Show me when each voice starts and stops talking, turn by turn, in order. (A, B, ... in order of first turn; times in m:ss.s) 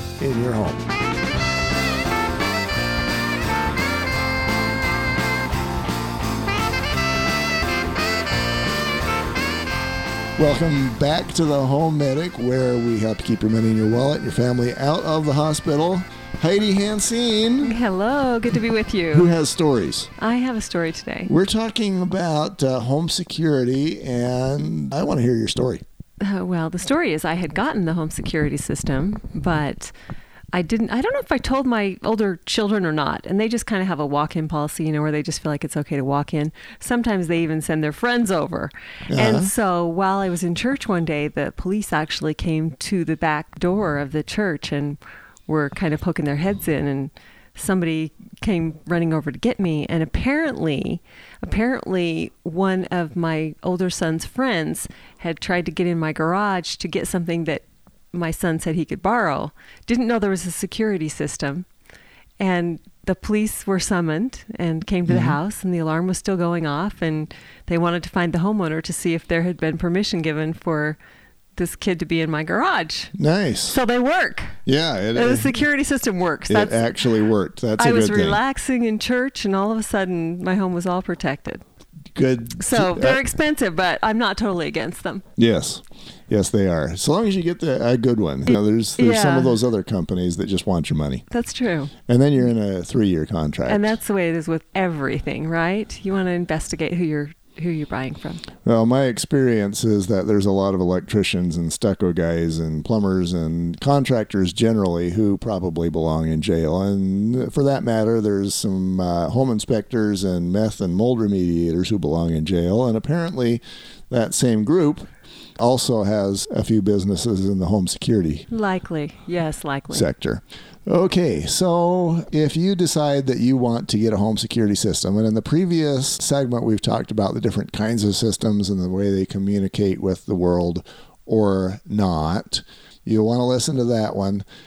0:00.2-0:00.9 A
0:10.4-0:17.7 A
0:17.6-0:19.3 B
0:19.1-0:20.1 A
0:20.2-0:21.3 B
0:21.2-0:25.8 A
0:26.2-0:29.9 B
0:30.5-1:01.6 B
0:39.1-0:39.5 A
1:02.4-1:11.0 B
1:05.1-1:05.4 A
1:11.6-1:13.1 B
1:13.1-1:13.8 A
1:13.7-1:14.6 B
1:14.6-1:15.5 A
1:15.1-1:17.0 B
1:16.5-1:18.4 A
1:17.8-1:21.6 B
1:22.1-1:23.2 A
1:22.6-1:25.2 B
1:25.4-1:31.2 A
1:28.5-1:29.6 B
1:31.3-1:31.9 B
1:32.1-1:34.0 A
1:33.6-1:38.4 B
1:38.6-1:58.5 A
1:58.5-2:00.1 B
1:59.9-2:14.4 A